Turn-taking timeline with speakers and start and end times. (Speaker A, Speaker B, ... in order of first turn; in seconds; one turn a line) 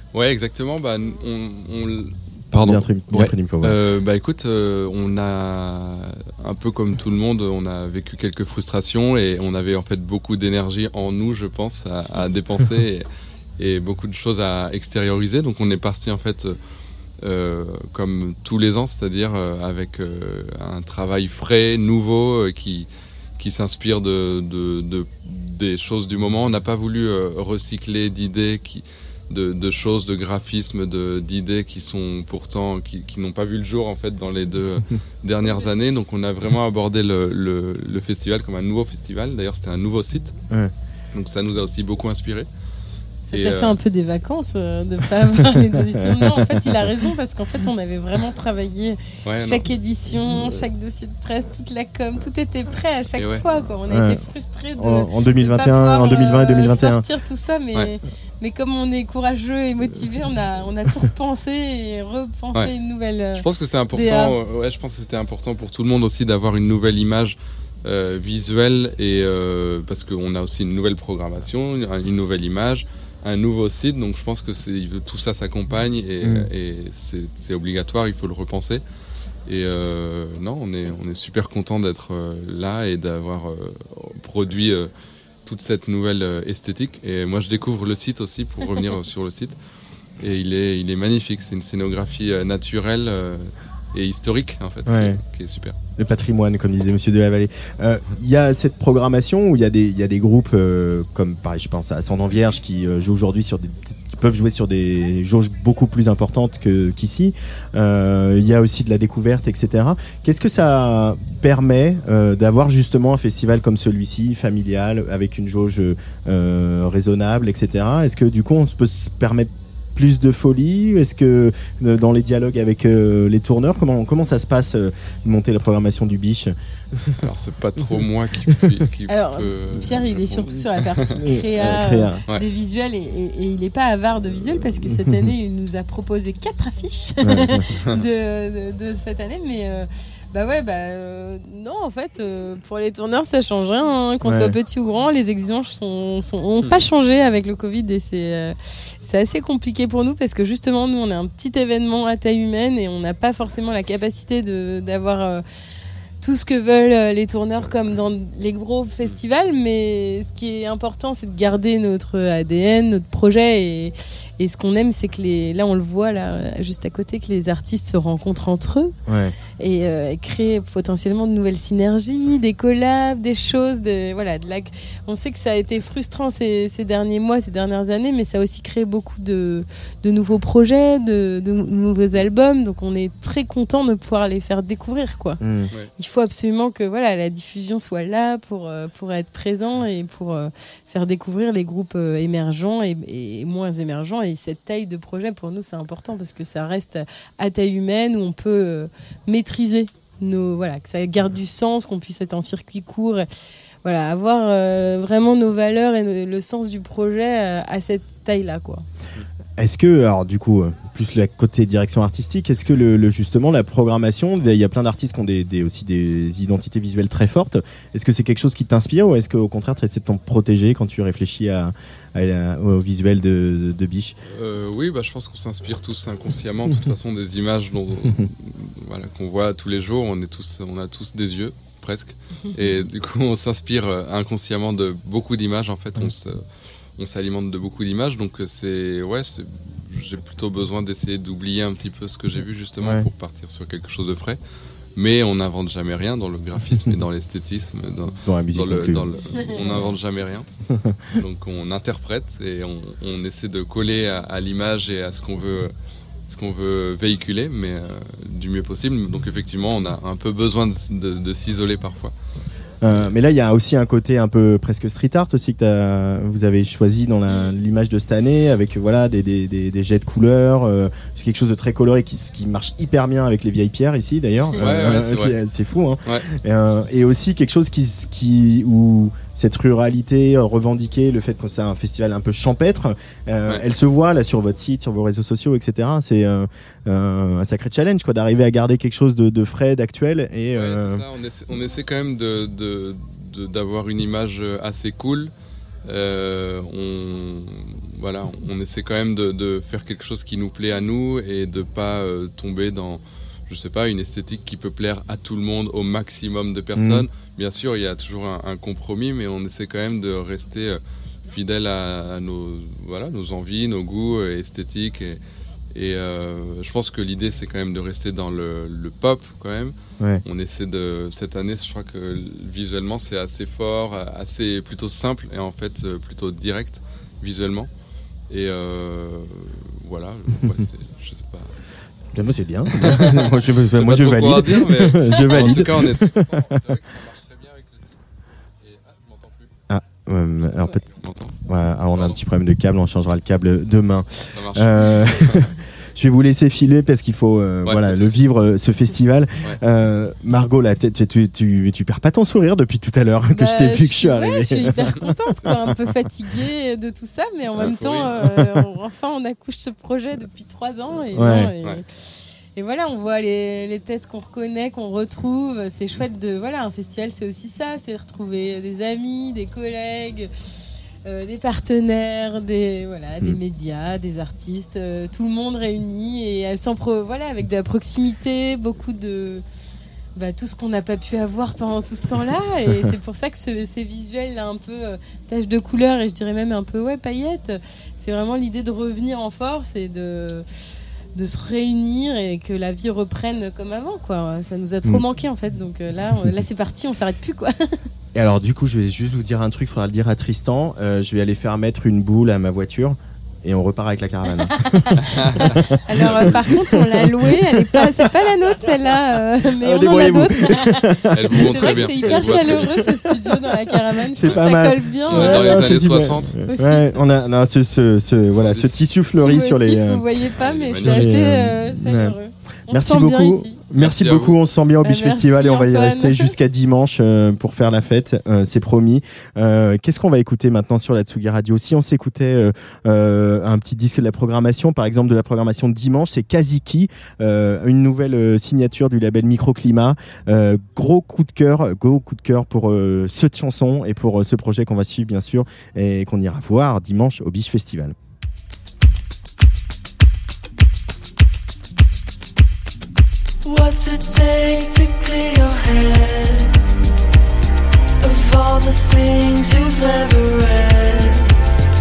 Speaker A: 0.1-13.1
Speaker B: 2.5-3.8
Speaker A: 13.6-16.6
Speaker A: 17.2-40.3
Speaker A: 41.1-42.5
Speaker A: 43.3-43.8
Speaker C: 43.3-64.3
Speaker B: 46.0-46.8
Speaker A: 49.2-49.7
Speaker A: 53.1-53.5
Speaker B: 53.9-54.2
Speaker B: 54.8-57.0
Speaker A: 63.4-78.8
Speaker B: 76.2-76.5
Speaker A: 79.5-84.9
Speaker A: 85.4-89.6
Speaker A: 90.2-95.8
Speaker B: 94.8-95.2
Speaker B: 96.0-127.1
Speaker A: 127.2-131.3
Speaker C: 129.1-155.4
Speaker B: 131.2-132.2
Speaker B: 134.8-135.3
Speaker B: 137.2-137.7
Speaker A: 137.8-138.0
Speaker B: 144.2-144.5
Speaker C: 156.2-168.9
Speaker B: 169.1-169.3
Speaker C: 169.6-185.4
Speaker B: 185.4-185.7
Speaker C: 186.0-203.2
Speaker C: 203.8-208.8
Speaker B: 209.6-224.1
Speaker A: 224.2-236.4
Speaker A: 237.0-244.4
Speaker B: 242.8-243.1
Speaker A: 244.9-250.5
Speaker B: 248.2-249.1
Speaker C: 249.5-249.8
Speaker A: 251.1-255.7
Speaker A: 256.3-262.1
Speaker B: 262.8-291.0
Speaker A: 274.6-275.4
Speaker A: 290.5-295.3
Speaker A: 295.8-315.2
Speaker B: 306.8-307.1
Speaker A: 315.7-327.7
Speaker A: 328.3-331.5
Speaker B: 332.1-336.6
Speaker A: 332.8-338.0
Speaker A: 338.6-339.5
Speaker B: 339.7-340.8
Speaker A: 340.6-341.4
Speaker B: 341.4-355.7
Speaker A: 344.3-345.5
Speaker A: 347.6-348.2
Speaker C: 353.3-361.9
Speaker A: 357.5-358.2
Speaker B: 361.1-361.5
Speaker C: 362.5-370.3
Speaker C: 371.1-379.4
Speaker C: 380.1-390.4
Speaker C: 391.1-397.7
Speaker B: 398.1-408.0
Speaker C: 404.6-404.8
Speaker A: 405.0-405.5
Speaker C: 405.9-415.8
Speaker B: 409.6-412.9
Speaker A: 411.1-413.0
Speaker B: 414.1-420.1
Speaker A: 414.1-416.4
Speaker C: 416.4-417.0
Speaker A: 418.3-418.8
Speaker C: 419.1-423.7
Speaker A: 420.3-421.2
Speaker B: 420.7-422.2
Speaker B: 422.7-447.9
Speaker A: 423.7-424.4
Speaker C: 424.8-426.3
Speaker D: 453.4-456.6
Speaker D: 458.0-461.3